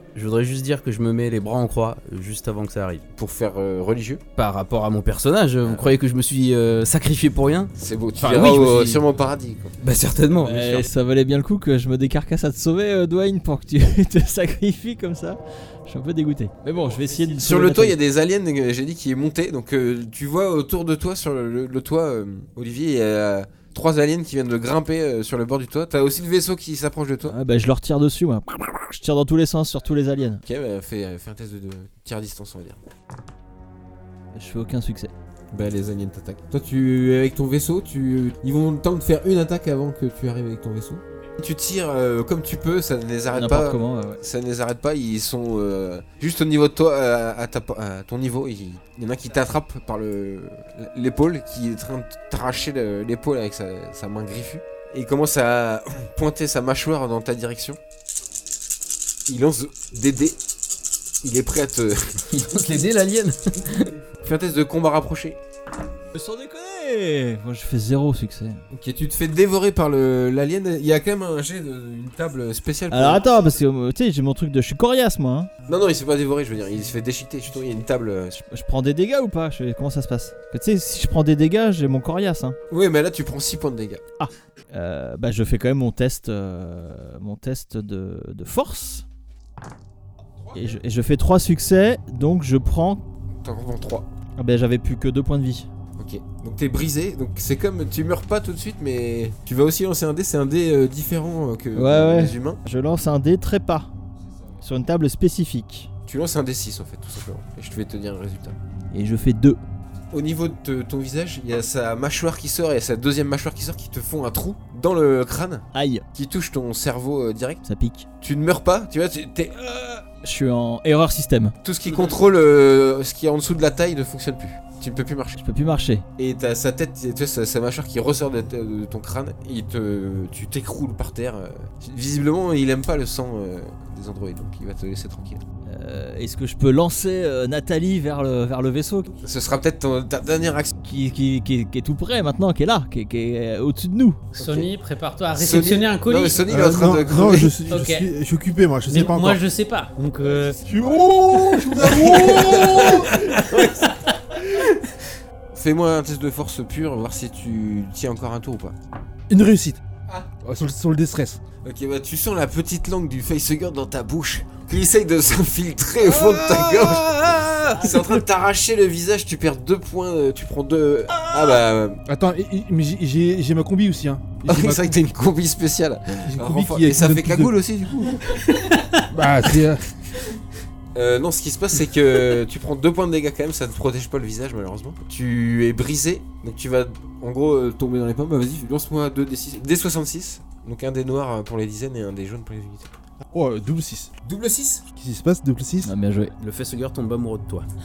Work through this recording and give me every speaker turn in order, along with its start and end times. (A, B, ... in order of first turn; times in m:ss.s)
0:00.2-0:03.1 A
0:03.2-0:04.2 B
0:04.4-0:09.0 A
0:05.6-0:05.9 B
0:07.8-0:09.8 B
0:09.8-0:10.9 A
0:10.4-0:18.0 C
0:17.4-0:27.4 B
0:27.2-0:30.4 C
0:30.4-0:32.8 B
0:34.3-0:35.1 C
0:35.5-0:57.8 B
0:43.3-0:44.2 C
0:59.3-1:00.4 B
1:01.2-1:02.2 B
1:02.3-1:03.9 A
1:04.2-1:05.4 B
1:06.1-1:08.6 C
1:08.7-1:13.2 B
1:12.9-1:15.5 C
1:15.7-1:18.4 B
1:18.4-1:22.6 C
1:22.7-1:24.0 B
1:24.2-1:29.0 C
1:30.5-1:33.0 C
1:33.4-1:34.1 B
1:34.4-1:35.7 C
1:36.0-1:42.6 B
1:41.8-1:43.9 C
1:44.6-1:45.9 C
1:46.1-1:48.6 B
1:48.9-1:49.6 C
1:50.1-1:57.6 B
1:55.7-1:56.1 C
1:57.6-1:58.1 C
1:58.2-2:00.1 B
2:00.2-2:01.6 C
2:01.6-2:05.4 B
2:05.4-2:06.1 C
2:06.2-2:15.4 B
2:15.7-2:19.2 C
2:19.2-2:20.7 B
2:20.8-2:24.2 C
2:24.4-2:26.5 D
2:24.4-2:24.7 B
2:25.3-2:27.6 B
2:26.5-2:29.4 E
2:27.1-2:28.1 D
2:28.9-2:30.6 D
2:30.6-2:33.2 E
2:31.6-2:33.9 B
2:34.6-2:34.9 B
2:35.5-2:38.8 B
2:39.3-2:39.8 E
2:40.4-2:41.4 E
2:41.6-2:52.0 B
2:52.1-2:55.0 E
2:54.5-2:58.3 B
2:56.3-2:57.5 E
2:58.5-2:59.0 D
2:59.1-2:59.8 E
3:00.9-3:12.9 B
3:13.3-3:14.1 E
3:14.2-3:14.8 B
3:15.0-3:15.9 E
3:15.8-3:16.3 C
3:16.4-3:17.7 A